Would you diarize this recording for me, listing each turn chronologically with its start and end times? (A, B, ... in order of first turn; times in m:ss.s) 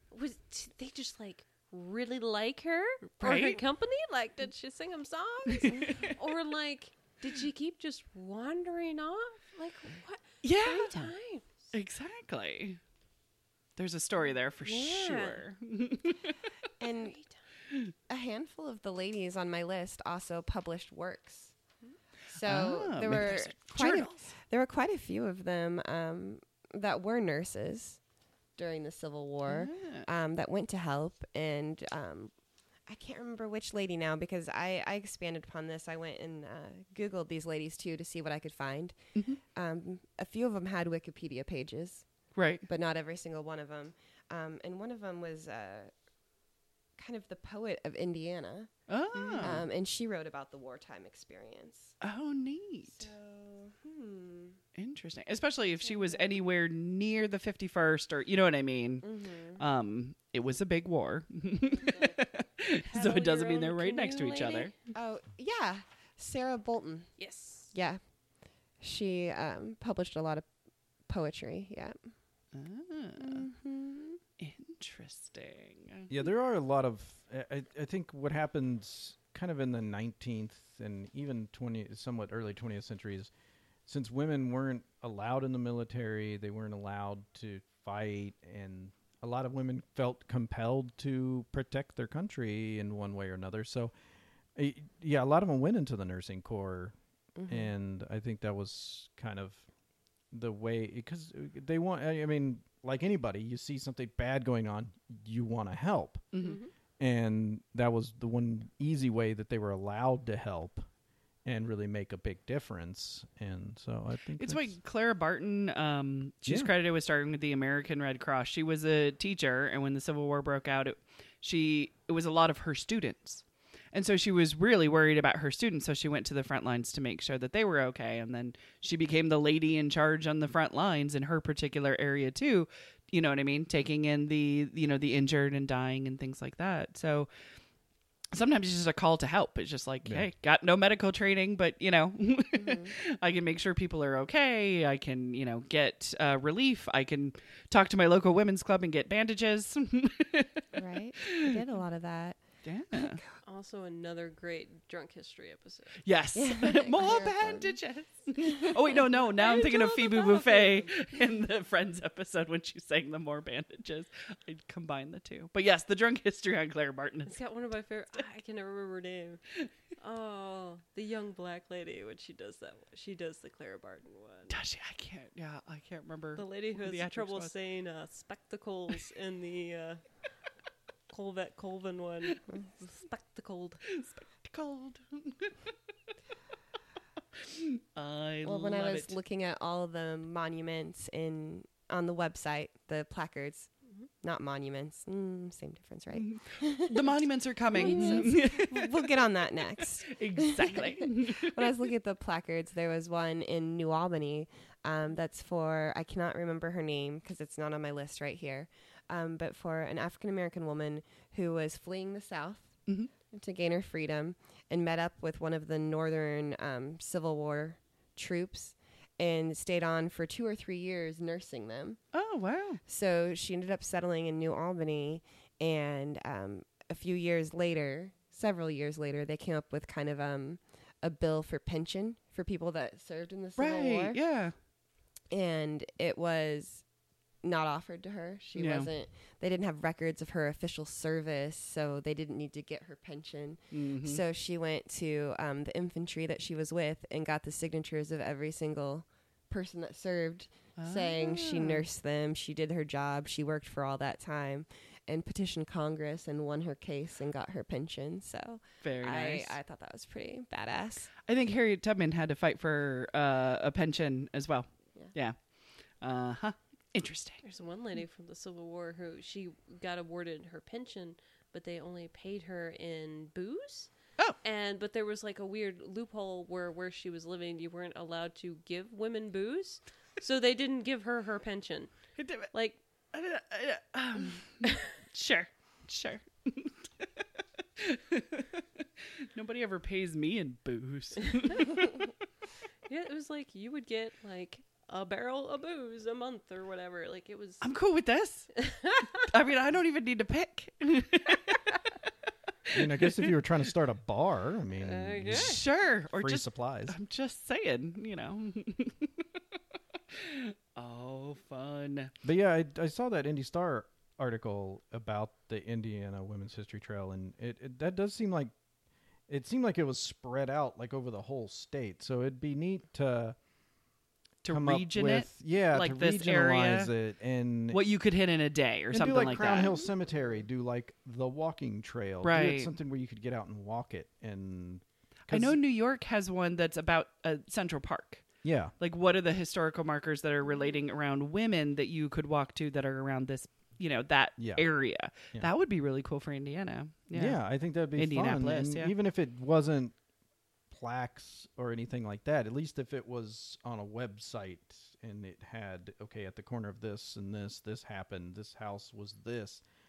0:00.1-0:11.7 A
0:03.2-0:03.6 B
0:05.5-0:06.1 B
0:10.4-0:11.1 B
0:11.7-0:12.8 B
0:13.8-0:16.4 B
0:14.6-0:15.4 A
0:16.8-0:17.2 C
0:17.0-0:17.4 A
0:18.1-0:21.5 C
0:22.3-0:28.0 C
0:22.4-0:24.3 B
0:28.6-0:32.3 C
0:29.4-0:30.1 B
0:32.9-0:38.9 C
0:39.5-0:42.0 C
0:42.4-0:42.6 B
0:42.6-0:45.9 C
0:47.0-0:48.7 C
0:48.9-0:49.6 B
0:49.2-0:49.5 A
0:49.4-0:51.9 C
0:52.0-0:53.1 B
0:52.9-0:54.6 C
0:54.8-1:04.7 B
0:59.0-0:59.6 C
1:02.8-1:04.8 A
1:04.9-1:07.1 C
1:07.2-1:07.7 A
1:07.7-1:08.0 C
1:08.8-1:10.5 C
1:11.1-1:12.0 C
1:12.5-1:13.4 B
1:13.2-1:14.2 C
1:14.4-1:16.1 B
1:16.1-1:23.3 D
1:23.9-1:33.9 D
1:34.6-1:36.9 D
1:37.4-1:37.7 C
1:37.5-1:39.6 D
1:40.3-1:46.2 D
1:46.3-1:46.6 B
1:46.4-1:46.7 A
1:47.0-1:50.9 D
1:51.4-1:54.8 D
1:54.4-2:17.3 B
1:56.4-1:56.7 D
2:18.3-2:30.6 B
2:22.5-2:22.9 C
2:30.7-2:32.4 C
2:31.2-2:31.6 B
2:32.6-2:33.2 B
2:32.9-2:33.4 C
2:33.4-2:36.0 A
2:36.0-2:47.4 B
2:36.3-2:37.8 C
2:39.4-2:41.0 A
2:47.2-2:49.4 A
2:50.0-2:54.6 A
2:54.5-2:57.5 B
2:56.4-3:00.0 A
3:01.1-3:03.8 A
3:03.9-3:05.7 B
3:07.4-3:09.1 B
3:08.4-3:13.7 C
3:14.2-3:16.9 C
3:16.2-3:19.2 B
3:17.7-3:32.8 C
3:17.8-3:18.2 A
3:19.8-3:21.7 B
3:33.3-3:42.0 C
3:42.1-3:42.8 B
3:42.9-3:54.2 C
3:53.6-3:54.5 B
3:55.3-3:56.8 C
3:57.4-4:21.1 C
3:58.5-3:58.9 B
4:03.7-4:04.2 B
4:10.8-4:11.9 B
4:18.8-4:19.6 B
4:21.3-4:25.4 B
4:26.0-4:27.4 B
4:27.4-4:41.9 A
4:42.2-4:42.5 B
4:42.5-4:42.8 A
4:43.1-4:47.1 B
4:47.8-4:52.1 B
4:52.9-4:57.6 A
4:57.6-4:58.5 B
4:58.6-4:59.1 A
4:59.1-5:01.6 B
5:02.7-5:06.9 D
5:04.7-5:05.6 A
5:05.3-5:09.2 B
5:10.1-5:12.1 B
5:12.2-5:18.5 D
5:19.3-5:23.4 D
5:24.4-5:26.9 B
5:24.5-5:27.8 D
5:27.7-5:29.7 B
5:28.9-5:35.6 D
5:32.2-5:32.7 B
5:35.3-5:38.3 B
5:38.4-5:38.7 D
5:38.8-5:47.4 B
5:44.4-5:44.6 D
5:47.1-5:49.9 D
5:48.0-5:48.9 B
5:50.7-5:59.6 D